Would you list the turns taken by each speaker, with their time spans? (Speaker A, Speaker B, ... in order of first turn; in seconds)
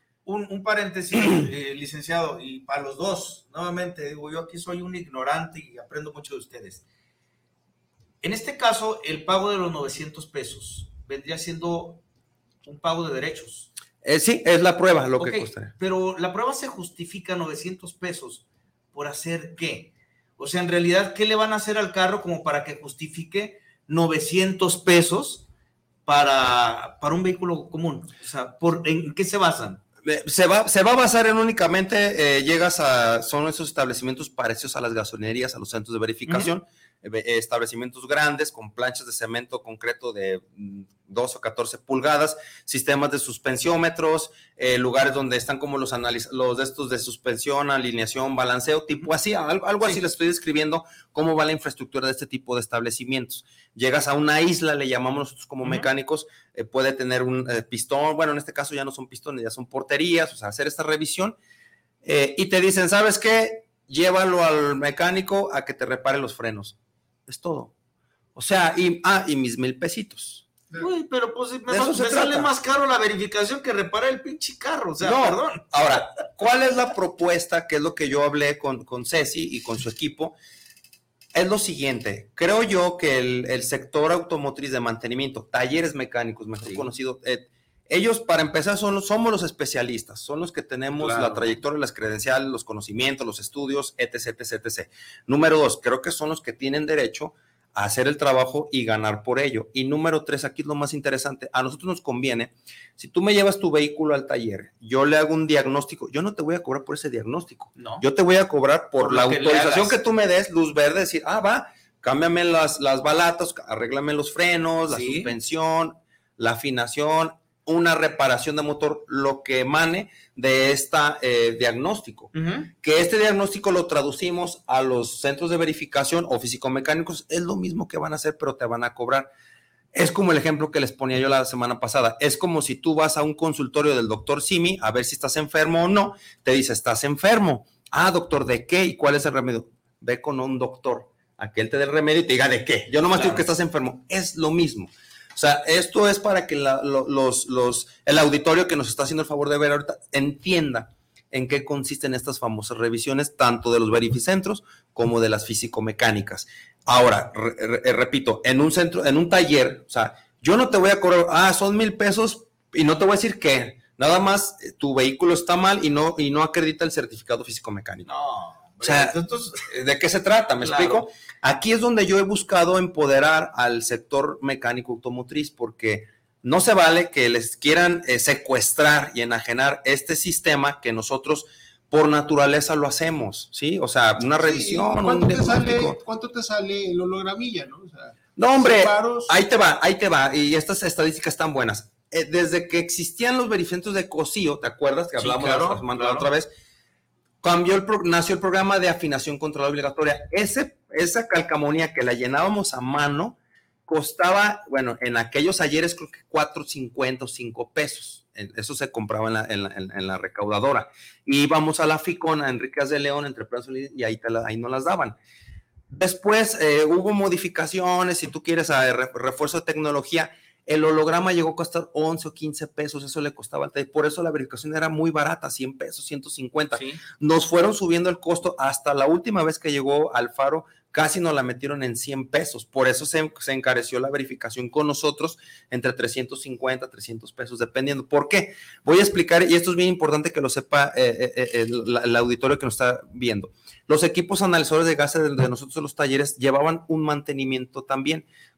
Speaker A: 0.2-6.8, 8.2-12.0, 12.6-13.7, 15.2-25.4, 26.1-29.8, 36.2-36.5, 70.8-75.9, 86.6-86.9, 91.0-91.5, 107.8-108.0, 109.0-110.0, 114.9-115.3, 122.3-122.7, 143.1-143.4, 168.0-169.7, 170.6-171.1, 195.2-196.3, 226.7-227.0
Speaker B: 14.0-15.7, 30.0-61.4, 62.0-66.7, 67.3-67.7, 68.3-70.4, 71.7-72.5, 75.0-80.3, 81.3-129.3, 129.9-168.1, 168.8-186.0, 188.4-196.5, 197.4-215.1, 215.9-248.2
Speaker C: 184.3-189.3